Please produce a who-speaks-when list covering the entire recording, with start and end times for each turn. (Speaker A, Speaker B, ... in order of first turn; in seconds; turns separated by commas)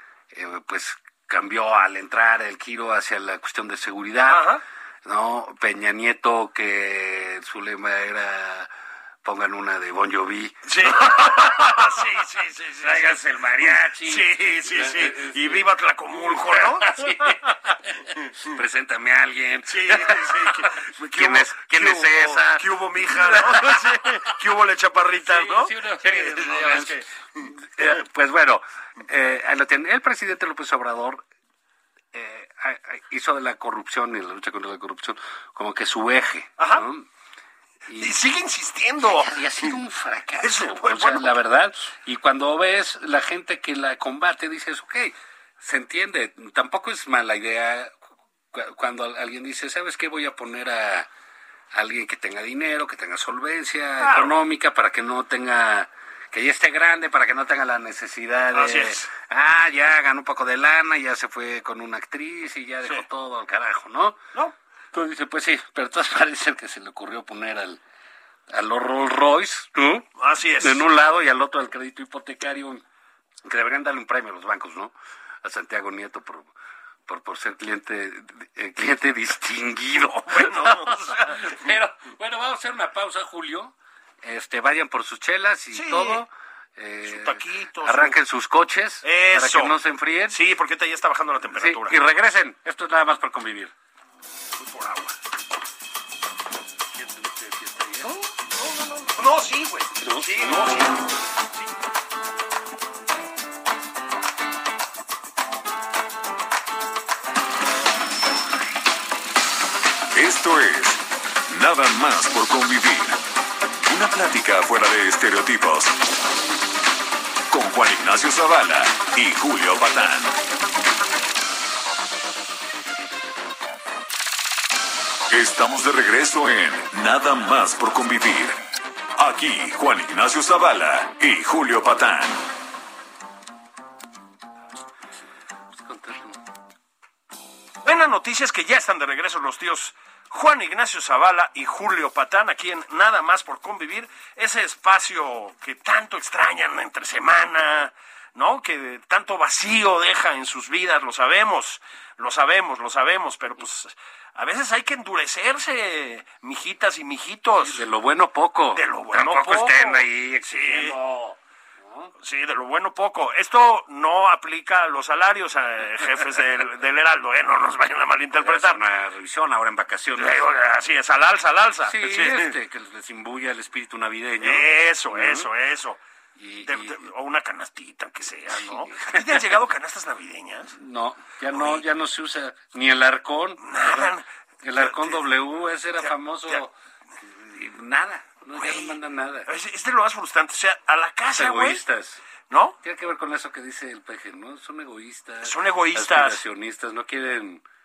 Speaker A: 0.3-8.7, Speaker B: 4.3-4.6, Speaker A: 9.2-12.0, Speaker B: 10.7-17.4, Speaker A: 12.8-24.4, Speaker B: 19.6-27.5, Speaker A: 25.1-31.2, Speaker A: 32.1-37.1, Speaker B: 36.6-36.9, Speaker A: 37.9-38.2, Speaker B: 37.9-39.8, Speaker A: 39.0-48.0, Speaker B: 40.4-41.4, Speaker A: 48.5-51.1, Speaker A: 51.7-64.2, Speaker B: 54.0-54.4, Speaker B: 58.5-59.1, Speaker A: 64.9-67.8, Speaker A: 68.5-70.1, Speaker B: 70.2-70.8, Speaker A: 70.6-72.8, Speaker A: 73.4-76.5, Speaker A: 77.1-90.4, Speaker B: 80.3-81.7, Speaker B: 85.7-86.2, Speaker B: 87.0-88.2, Speaker B: 89.0-89.8, Speaker B: 90.3-92.0, Speaker A: 91.5-93.7, Speaker B: 94.6-95.2, Speaker A: 96.9-98.2, Speaker B: 98.0-101.7, Speaker A: 100.0-101.1, Speaker C: 110.1-113.2, Speaker C: 113.8-116.0, Speaker C: 117.5-120.4, Speaker C: 125.3-128.6, Speaker C: 129.2-132.4, Speaker A: 135.7-136.4, Speaker B: 137.8-157.9, Speaker A: 157.6-162.1, Speaker B: 158.7-160.9, Speaker B: 162.2-168.8, Speaker A: 168.3-170.4, Speaker B: 170.2-172.5, Speaker A: 171.8-175.5, Speaker B: 174.4-176.0, Speaker A: 176.4-177.1, Speaker B: 176.6-180.7, Speaker A: 178.5-179.6, Speaker A: 180.7-189.5, Speaker B: 181.5-181.8, Speaker B: 183.6-184.2, Speaker B: 184.8-185.2, Speaker B: 188.6-191.8, Speaker A: 191.3-192.2, Speaker B: 192.5-192.8, Speaker A: 192.8-197.6, Speaker B: 195.4-196.4